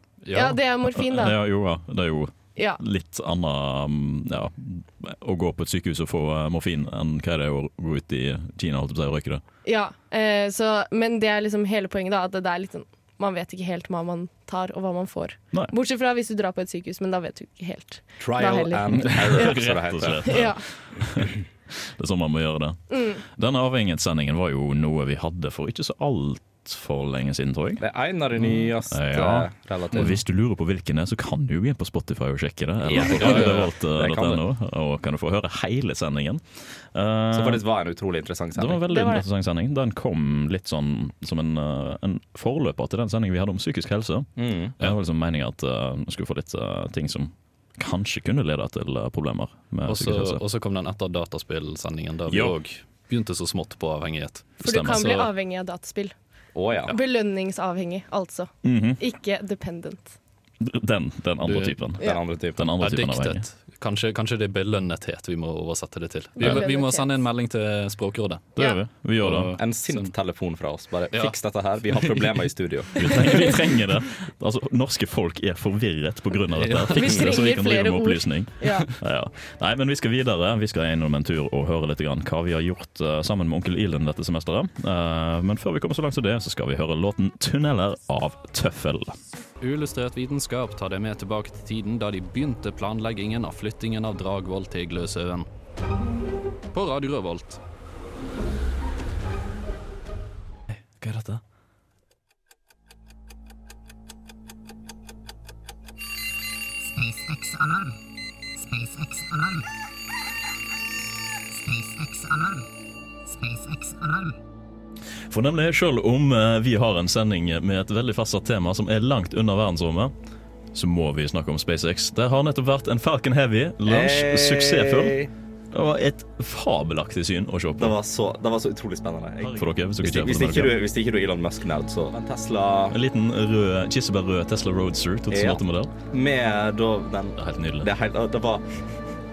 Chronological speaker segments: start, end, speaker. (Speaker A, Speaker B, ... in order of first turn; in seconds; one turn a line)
Speaker A: 0.2-0.6
Speaker B: 0.3-1.4
Speaker C: 0.9-9.4
Speaker B: 2.5-2.8
Speaker B: 9.6-19.5
Speaker D: 18.2-20.4
Speaker C: 18.9-27.8
Speaker B: 20.2-20.6
Speaker B: 22.9-23.2
Speaker D: 27.8-30.2
Speaker C: 28.9-36.4
Speaker D: 32.8-34.4
Speaker A: 33.2-33.6
Speaker C: 36.9-37.6
Speaker D: 37.3-38.9
Speaker C: 38.5-50.4
Speaker B: 38.9-39.2
Speaker D: 44.4-44.9
Speaker A: 49.9-55.3
Speaker C: 52.3-52.6
Speaker B: 54.6-56.1
Speaker C: 54.6-55.1
Speaker D: 56.5-57.0
Speaker B: 56.9-60.2
Speaker C: 58.6-59.0
Speaker C: 60.6-63.5
Speaker A: 61.4-61.8
Speaker D: 62.0-62.7
Speaker A: 62.8-68.5
Speaker B: 66.4-67.1
Speaker C: 68.5-69.5
Speaker A: 69.2-70.1
Speaker D: 69.5-73.1
Speaker A: 71.9-72.4
Speaker C: 72.9-89.2
Speaker A: 76.5-77.2
Speaker B: 76.9-78.9
Speaker A: 89.6-95.5
Speaker A: 96.7-97.6
Speaker C: 100.7-101.4
Speaker E: 107.0-107.9
Speaker E: 108.7-109.6
Speaker E: 111.7-112.6
Speaker E: 113.4-114.3
Speaker C: 115.3-120.1
Speaker C: 120.7-127.9
Speaker D: 123.8-125.3
Speaker D: 127.8-133.0
Speaker C: 129.4-130.8
Speaker C: 132.9-135.9
Speaker D: 135.3-138.9
Speaker C: 137.4-137.9